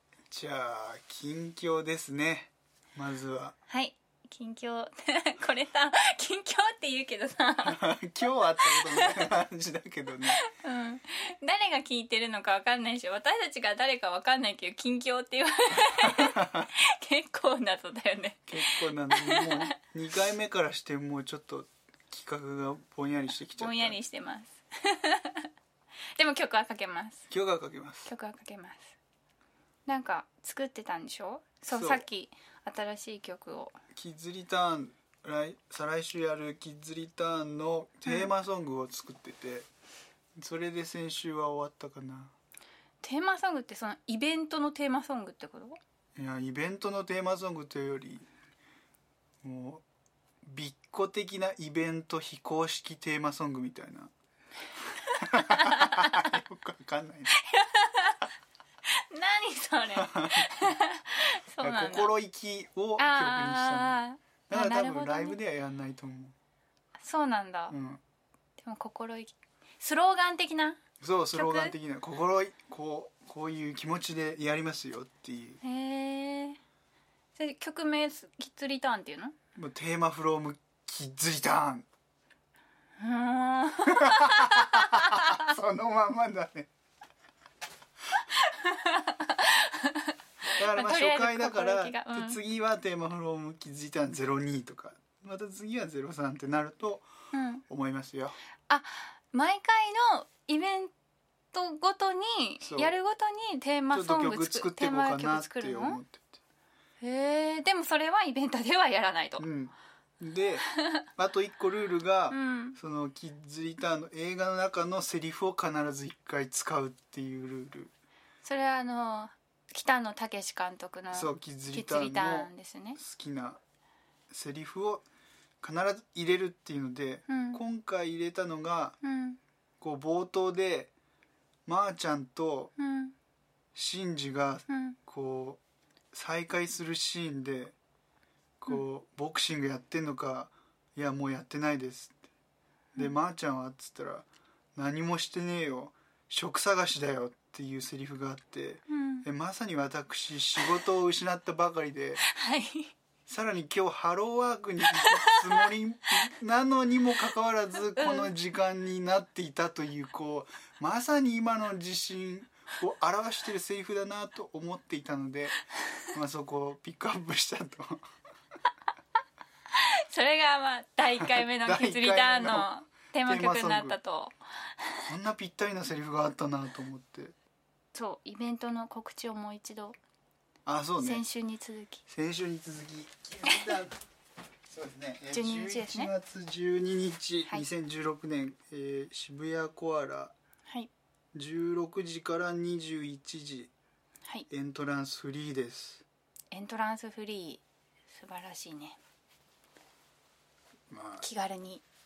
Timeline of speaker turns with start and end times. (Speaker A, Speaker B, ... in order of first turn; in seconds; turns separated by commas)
Speaker A: 0.3-3.5, Speaker B: 3.7-7.8, Speaker A: 7.6-10.4, Speaker B: 8.6-9.3, Speaker B: 10.3-19.7, Speaker A: 16.0-16.7, Speaker A: 18.5-24.0, Speaker B: 23.6-25.5, Speaker B: 26.2-27.2, Speaker A: 27.3-28.1, Speaker B: 28.1-29.0, Speaker B: 29.9-33.8, Speaker A: 31.7-32.0, Speaker A: 34.0-39.7, Speaker A: 40.4-42.3, Speaker B: 43.0-45.8, Speaker A: 46.2-48.3, Speaker A: 49.4-49.8, Speaker A: 50.4-54.1, Speaker A: 55.1-57.4, Speaker B: 55.2-56.3, Speaker B: 57.3-58.3, Speaker B: 58.9-62.1, Speaker A: 60.0-60.7, Speaker A: 61.6-66.3, Speaker B: 63.0-65.4, Speaker B: 67.0-67.8, Speaker A: 67.7-68.0, Speaker B: 68.6-70.8, Speaker A: 71.0-75.6, Speaker B: 71.3-71.7, Speaker B: 75.6-76.6, Speaker B: 77.4-79.3, Speaker A: 79.5-81.9, Speaker B: 83.0-85.4, Speaker A: 83.9-86.7, Speaker B: 88.2-92.4, Speaker A: 90.5-97.1, Speaker B: 97.3-97.6, Speaker A: 97.7-98.4, Speaker B: 98.7-100.9, Speaker B: 101.5-106.0, Speaker A: 102.6-102.9, Speaker A: 103.9-106.4, Speaker B: 107.0-109.5, Speaker A: 109.4-117.9, Speaker B: 112.3-112.8, Speaker B: 118.4-123.0, Speaker A: 121.1-123.6, Speaker A: 124.3-125.0, Speaker A: 125.6-129.0, Speaker B: 127.3-127.6, Speaker B: 129.0-129.4, Speaker A: 129.8-130.9, Speaker A: 131.7-132.7, Speaker B: 132.8-133.1, Speaker A: 133.8-135.6, Speaker B: 134.7-135.0, Speaker A: 136.1-137.8, Speaker A: 138.6-142.2, Speaker A: 142.9-152.2, Speaker B: 148.9-149.2, Speaker B: 152.3-152.9, Speaker A: 153.3-165.6, Speaker B: 155.0-155.7, Speaker B: 158.0-158.3, Speaker A: 166.1-168.1, Speaker B: 169.7-175.0, Speaker A: 171.2-174.0, Speaker A: 175.1-177.3, Speaker B: 177.9-180.0, Speaker A: 180.7-181.2, Speaker B: 181.0-182.0, Speaker A: 182.1-184.0, Speaker B: 183.5-183.8, Speaker A: 184.7-190.3, Speaker B: 185.3-186.1, Speaker A: 191.3-193.7, Speaker A: 194.5-196.0, Speaker B: 196.5-199.0, Speaker A: 200.9-201.3, Speaker B: 201.2-201.8